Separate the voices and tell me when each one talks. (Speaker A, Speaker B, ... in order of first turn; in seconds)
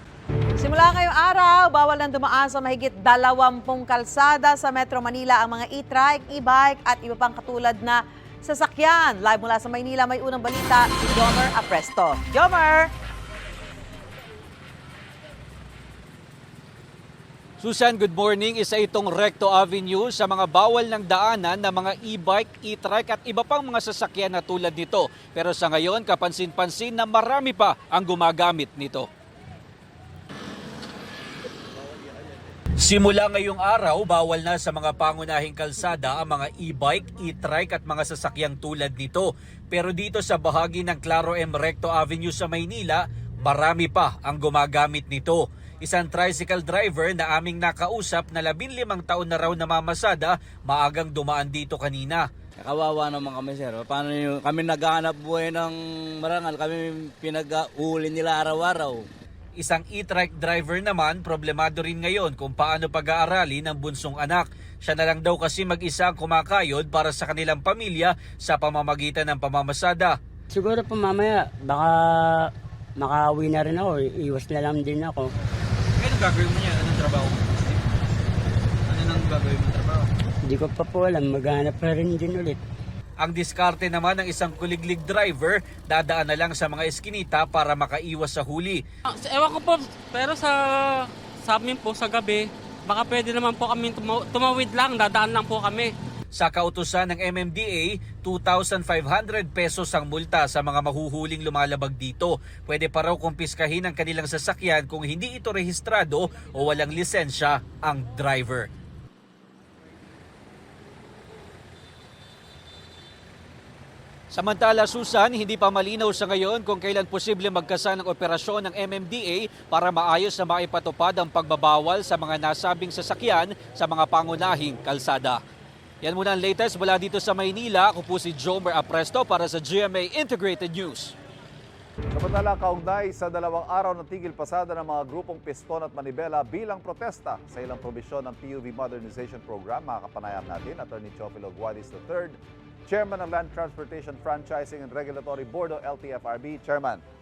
Speaker A: 0.6-12.9
Speaker B: 17.6-29.1, 32.8-52.2, 59.6-70.2, 83.2-88.8, 96.3-108.7, 114.3-125.4, 126.0-131.1
Speaker C: 52.6-59.0
Speaker D: 70.5-72.5, 73.0-75.3, 80.5-82.6
Speaker E: 89.1-95.9
Speaker F: 132.1-147.0